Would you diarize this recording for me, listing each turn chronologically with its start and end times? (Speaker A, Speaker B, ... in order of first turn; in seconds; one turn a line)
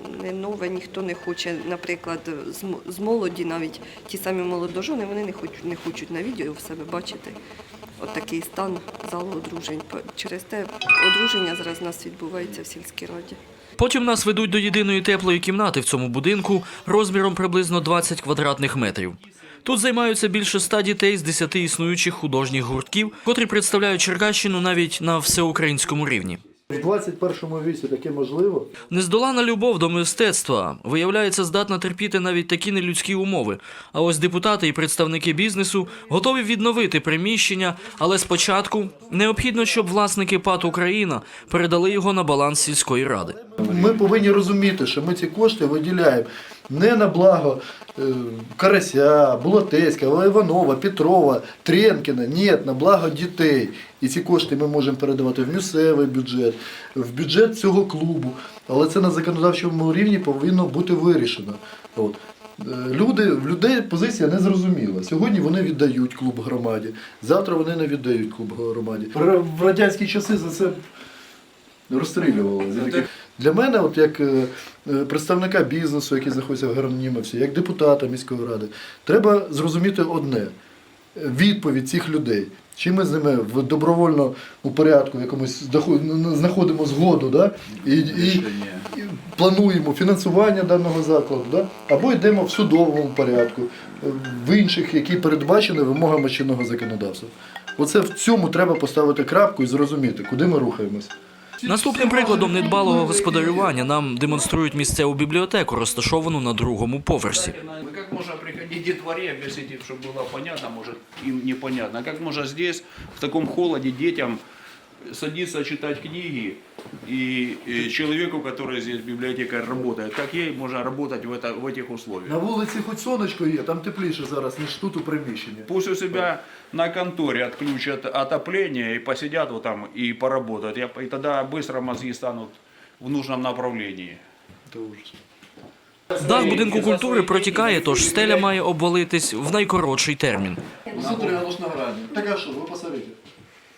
Speaker A: 0.2-7.3
Speaker A: 8.0-13.3
Speaker B: 13.8-26.4
Speaker C: 26.7-28.7
Speaker B: 28.9-43.5
Speaker C: 43.6-70.8
Speaker C: 71.9-80.5
Speaker C: 81.2-103.7
Speaker B: 101.7-107.5
Speaker D: 107.3-114.4
Speaker D: 115.1-122.4
Speaker C: 122.2-126.2
Speaker D: 125.7-134.2
Speaker C: 134.7-135.1
Speaker B: 136.2-140.6
Speaker D: 136.3-137.9
Speaker C: 140.9-143.2